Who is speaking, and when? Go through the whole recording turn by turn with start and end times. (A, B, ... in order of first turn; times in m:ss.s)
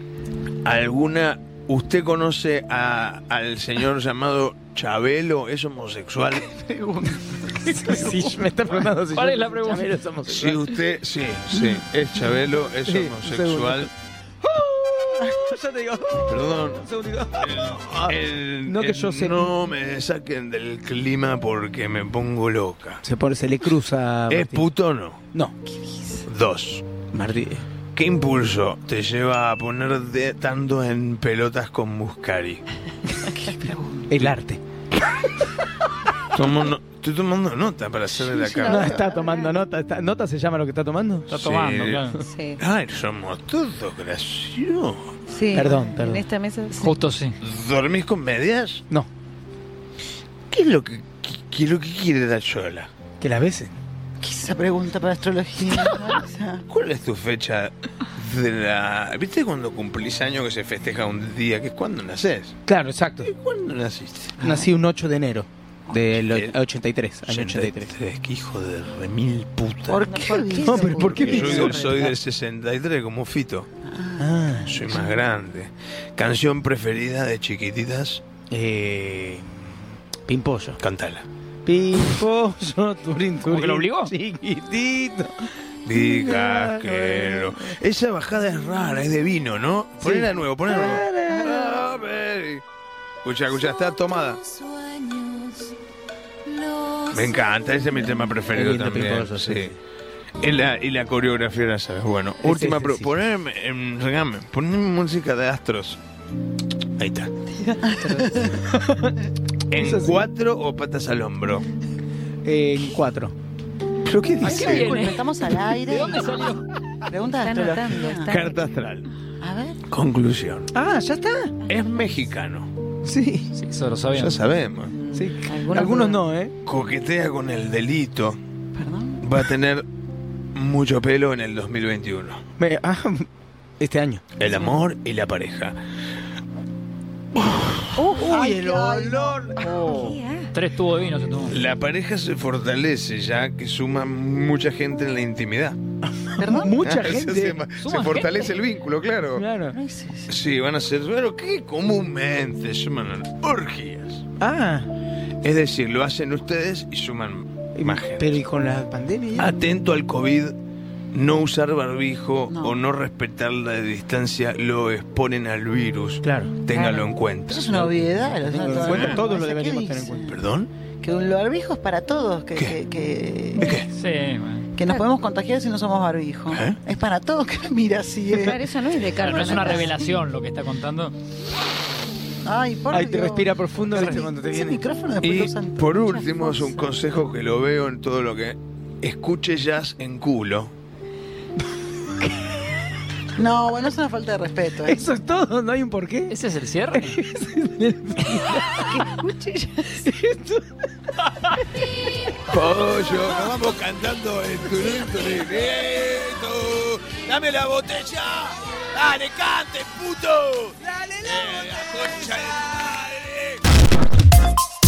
0:00.6-0:06.6 A
0:06.6-0:08.3 B
0:07.6-0:10.8 C
0:09.1-0:10.0 D
0:10.2-0:13.9 A
0:12.8-0:13.9 C
0:14.4-0:19.6 C
0:16.3-0:16.9 A
0:17.4-0:23.0 A
0:23.0-0:24.7 C
0:24.3-0:25.2 A
0:26.2-0:26.8 A
0:27.1-0:27.7 C
0:27.9-0:32.6 A
0:33.4-0:34.1 B
0:34.1-0:34.6 C
0:36.3-0:39.0 A
0:38.2-0:39.5 E
0:38.6-0:41.3 C
0:41.3-0:42.2 D
0:41.3-0:45.1 A
0:42.2-0:42.6 E
0:45.3-0:47.0 E
0:45.5-0:46.2 C
0:46.7-0:47.4 D
0:47.4-0:48.8 A
0:50.5-0:52.9 A
0:53.2-0:53.8 C
0:54.2-0:56.6 B
0:56.7-1:02.7 A
1:02.7-1:03.3 C
1:03.2-1:04.4 A
1:04.4-1:04.7 B
1:04.4-1:07.9 C
1:06.2-1:06.6 A
1:07.2-1:10.1 A
1:09.9-1:11.7 B
1:10.1-1:11.9 E
1:10.6-1:12.2 C
1:11.0-1:13.7 A
1:13.8-1:15.2 B
1:14.2-1:14.9 C
1:14.7-1:18.2 A
1:18.5-1:20.8 C
1:20.8-1:21.3 A
1:21.6-1:27.8 C
1:23.5-1:24.1 D
1:25.8-1:32.6 A
1:30.0-1:31.9 C
1:33.2-1:34.4 A
1:37.1-1:39.7 A
1:38.4-1:39.8 C
1:40.4-1:46.0 A
1:42.4-1:43.1 C
1:47.0-1:47.3 A
1:47.6-1:49.2 C
1:47.8-1:48.6 B
1:49.7-1:51.7 A
1:49.8-1:50.3 C
1:52.4-1:53.4 C
1:54.1-1:55.0 A
1:54.2-1:54.4 C
1:54.4-1:56.6 D
1:54.4-1:56.6 B
1:57.1-1:58.4 B
1:57.2-1:58.7 E
1:58.3-1:59.1 A
1:59.4-1:59.8 B
1:59.9-2:00.7 A
2:00.7-2:01.5 C
2:01.7-2:02.7 A
2:03.0-2:03.5 C
2:03.5-2:04.4 D
2:04.1-2:04.9 A
2:04.8-2:06.2 E
2:05.1-2:06.5 C
2:06.6-2:08.4 A
2:08.7-2:09.2 B
2:09.2-2:09.8 A
2:10.6-2:12.4 A
2:12.6-2:13.3 C
2:13.8-2:14.2 C
2:14.4-2:15.8 A
2:17.4-2:17.8 A
2:18.0-2:18.3 E
2:18.1-2:19.6 C
2:18.2-2:19.6 B
2:19.6-2:20.5 E
2:19.7-2:21.6 D
2:21.5-2:25.8 A
2:26.0-2:27.7 C
2:26.4-2:26.8 B
2:26.8-2:29.5 A
2:27.7-2:28.6 D
2:29.4-2:29.8 C
2:29.7-2:30.3 B
2:30.3-2:34.2 A
2:34.4-2:34.9 C
2:35.4-2:38.4 A
2:37.8-2:39.6 C
2:39.4-2:40.6 A
2:41.1-2:48.0 A
2:42.5-2:42.8 B
2:46.2-2:46.6 C
2:46.7-2:50.4 B
2:47.8-2:50.3 C
2:48.7-2:49.3 A
2:50.3-2:50.7 A
2:51.0-2:53.8 B
2:53.6-2:53.9 A
2:53.9-2:54.7 D
2:54.8-2:58.6 B
2:56.5-2:56.8 A
2:58.3-3:00.0 E
2:59.2-3:01.2 D
2:59.2-3:00.1 B
3:02.4-3:06.9 B
3:02.9-3:04.8 C
3:05.2-3:10.7 A
3:13.4-3:15.0 B
3:14.8-3:16.4 C
3:16.3-3:17.2 D
3:16.9-3:19.1 C
3:18.8-3:20.0 B
3:20.0-3:20.7 C
3:22.5-3:33.6 A
3:30.8-3:31.7 C